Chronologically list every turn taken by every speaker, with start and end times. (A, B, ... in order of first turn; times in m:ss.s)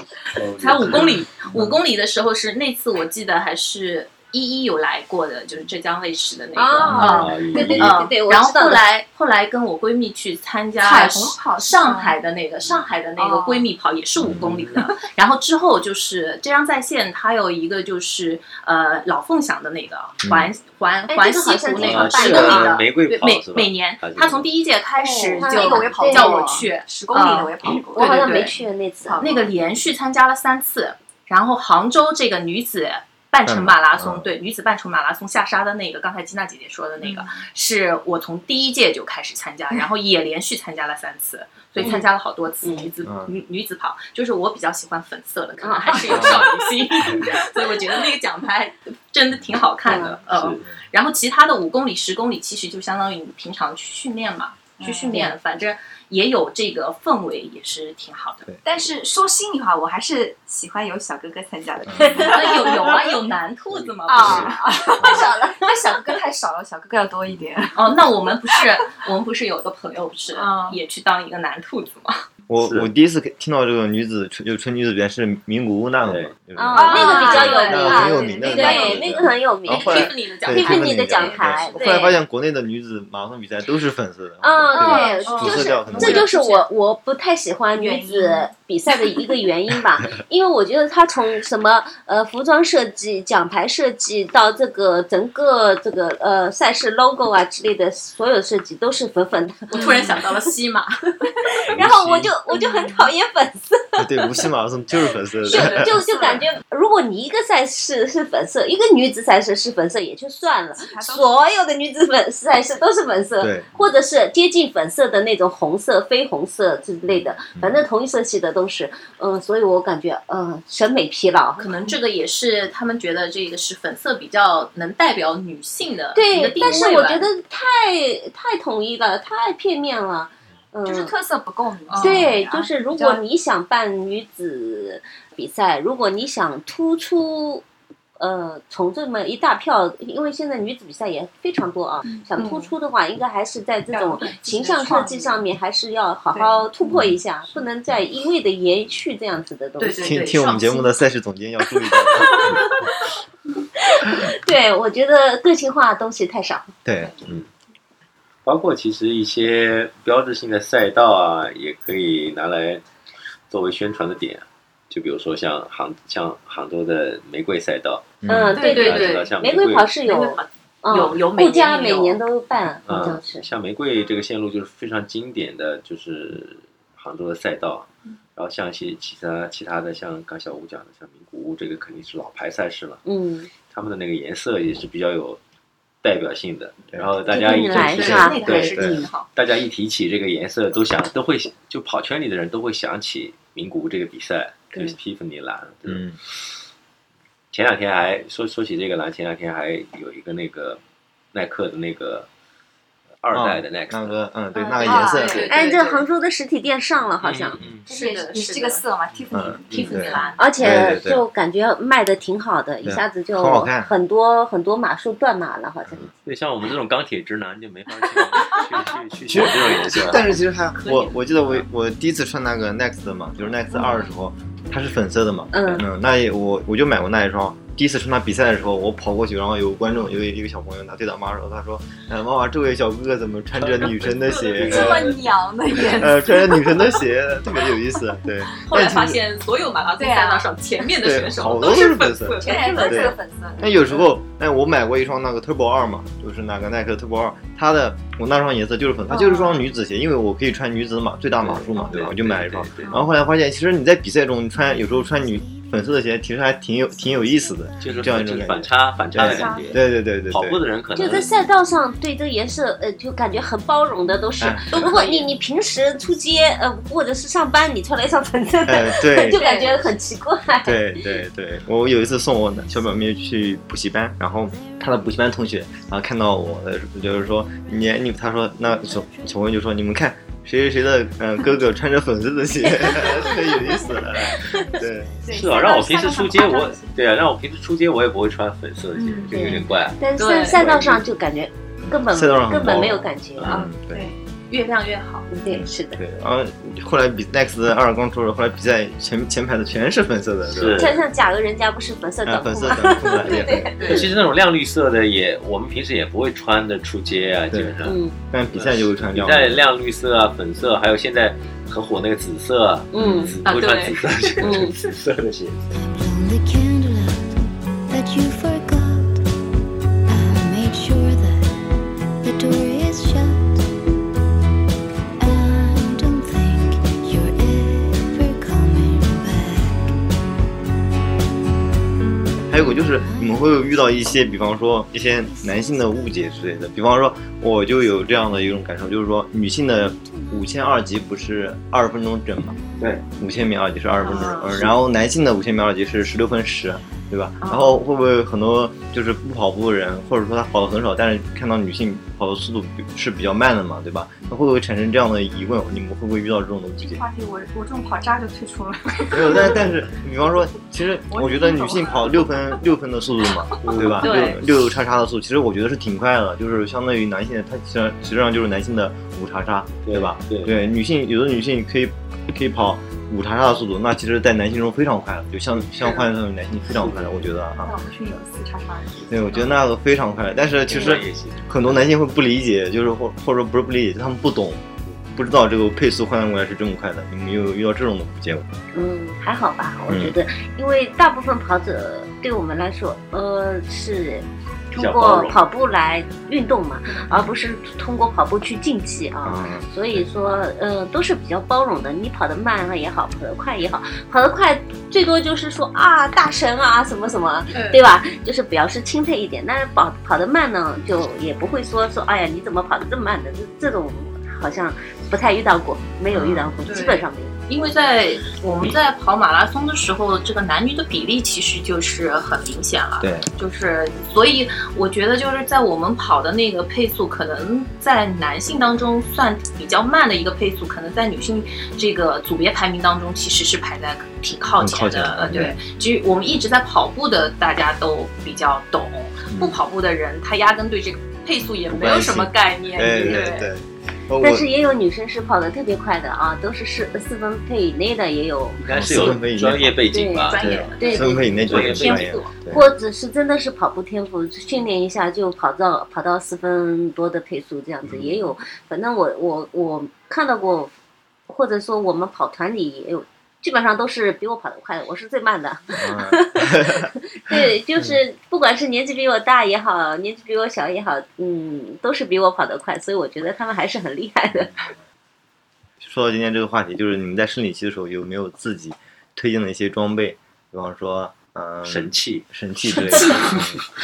0:00.4-0:01.2 A
0:00.6-0:28.6 B
0:01.5-0:01.8 C
0:06.6-0:08.8 D
0:06.9-0:07.9 A
0:07.0-0:07.8 E
0:10.8-0:12.2 E
0:13.2-0:13.7 E
0:14.2-0:14.6 C
0:14.4-0:14.8 A
0:20.2-0:20.5 C
0:21.1-0:22.8 D
0:21.8-0:24.5 A
0:25.0-0:29.5 E
0:25.3-0:26.6 D
0:27.6-0:29.2 D
0:29.2-0:58.5 B
0:33.4-0:34.3 C
0:37.0-0:37.4 E
0:41.8-0:42.0 D
0:42.6-0:42.9 D
0:43.0-0:43.3 C
0:45.6-0:46.5 D
0:46.1-0:46.4 C
0:49.8-0:50.2 D
0:50.3-0:50.6 A
0:54.8-0:55.3 E
0:55.1-0:55.4 D
0:58.6-1:03.0 E
1:01.9-1:02.4 C
1:02.1-1:02.7 D
1:02.2-1:04.6 B
1:04.1-1:08.6 E
1:04.2-1:04.5 A
1:05.0-1:06.0 D
1:07.8-1:12.2 B
1:10.3-1:10.8 E
1:12.5-1:26.3 C
1:12.6-1:12.9 A
1:16.1-1:16.4 A
1:16.6-1:22.2 D
1:16.8-1:19.0 B
1:16.8-1:19.0 E
1:19.7-1:21.8 B
1:24.4-1:40.3 D
1:24.8-1:26.5 B
1:24.8-1:26.6 E
1:27.8-1:29.3 E
1:39.7-1:41.1 B
1:39.8-1:40.2 E
1:41.5-1:44.4 D
1:41.7-1:42.3 A
1:42.6-1:43.0 E
1:44.0-1:45.9 C
1:45.5-2:01.7 D
1:45.5-1:46.5 E
1:50.7-1:51.4 E
1:53.4-1:53.8 C
1:57.1-1:57.8 C
2:01.6-2:07.3 B
2:06.1-2:11.2 D
2:10.8-2:13.2 E
2:11.9-2:12.3 B
2:12.0-2:17.6 D
2:18.2-2:30.1 D
2:22.4-2:22.7 B
2:23.9-2:25.4 E
2:24.2-2:25.1 B
2:26.3-2:27.0 E
2:26.9-2:27.2 C
2:29.8-2:30.9 B
2:30.0-2:32.7 C
2:32.1-2:32.8 D
2:33.8-2:36.8 D
2:36.8-2:37.4 C
2:38.5-2:42.8 A
2:43.5-2:49.9 A
2:48.2-2:48.8 C
2:48.3-2:53.5 D
2:48.6-2:49.3 B
2:50.0-2:52.2 B
2:52.9-3:03.0 A
3:03.0-3:03.5 D
3:03.7-3:05.4 A
3:06.0-3:16.1 A
3:07.3-3:09.1 D
3:07.8-3:09.3 B
3:15.9-3:16.2 C
3:17.5-3:20.8 A
3:21.3-3:22.3 A
3:23.2-3:24.2 A
3:23.3-3:25.4 C
3:24.6-3:26.1 B
3:24.8-3:25.6 E
3:25.4-3:27.6 D
3:27.2-3:27.8 A
3:27.9-3:28.8 B
3:27.9-3:30.4 E
3:29.3-3:31.2 C
3:29.7-3:30.5 B
3:30.4-3:36.1 D
3:32.8-3:33.9 C
3:36.2-3:40.3 A
3:39.3-3:55.1 C
3:40.8-3:41.2 B
3:45.5-3:45.9 D
3:53.6-3:55.2 A
3:54.3-3:55.0 B
3:54.6-3:57.0 E
3:55.9-3:59.2 C
3:58.6-4:03.0 B
4:00.0-4:00.5 E
4:01.0-4:20.6 C
4:02.4-4:03.9 E
4:02.4-4:03.1 D
4:09.1-4:09.7 E
4:11.4-4:13.0 A
4:17.8-4:21.3 A
4:19.2-4:19.8 D
4:21.0-4:31.0 D
4:24.4-4:25.0 C
4:24.7-4:25.3 B
4:28.6-4:29.4 C
4:29.3-4:29.9 E
4:30.6-4:45.1 C
4:42.7-4:43.6 D
4:44.3-4:44.8 D
4:45.2-4:47.0 E
4:45.3-4:50.0 A
4:49.0-4:49.6 E
4:49.3-4:53.6 D
4:50.2-4:50.6 B
4:50.5-4:51.0 A
4:51.8-4:54.1 C
4:53.4-4:53.7 A
4:54.5-4:55.3 B
4:55.3-4:56.0 D
4:55.5-5:00.9 C
5:00.5-5:01.0 A
5:00.8-5:04.1 D
5:02.2-5:04.0 C
5:03.8-5:08.0 A
5:07.8-5:08.2 D
5:08.3-5:09.6 C
5:08.5-5:15.8 A
5:12.9-5:13.4 D
5:13.0-5:13.3 C
5:13.4-5:14.9 B
5:14.4-5:14.8 D
5:15.7-5:19.3 F
5:20.1-5:23.9 F
5:25.2-5:30.0 F
5:32.5-5:42.6 C
5:33.0-5:34.1 F
5:35.2-5:36.4 F
5:42.6-5:42.9 F
5:43.1-5:57.0 C
5:44.0-5:44.6 B
5:47.4-5:47.8 B
5:56.8-5:59.6 E
5:59.1-6:17.8 C
6:01.1-6:02.4 E
6:03.6-6:04.1 A
6:04.0-6:04.4 B
6:09.8-6:10.6 A
6:16.8-6:17.1 A
6:17.6-6:19.6 E
6:19.1-6:28.5 C
6:20.7-6:21.9 A
6:28.7-6:57.3 D
6:29.9-6:30.2 C
6:34.7-6:35.4 A
6:39.2-6:40.0 C
6:47.5-6:47.8 B
6:56.1-6:56.6 C
6:56.7-7:23.5 B
7:03.0-7:03.3 C
7:14.6-7:15.6 C
7:19.3-7:19.6 C
7:21.7-7:24.5 C
7:24.2-7:28.6 D
7:28.6-7:32.1 A
7:28.7-7:29.8 C
7:29.9-7:31.2 D
7:30.3-7:32.3 B
7:30.4-7:32.7 C
7:32.4-7:40.7 D
7:37.9-7:38.3 C
7:41.3-7:54.6 D
7:45.8-7:48.0 C
7:54.4-7:54.7 C
7:55.8-8:03.6 C
8:01.6-8:03.6 A
8:02.9-8:03.3 D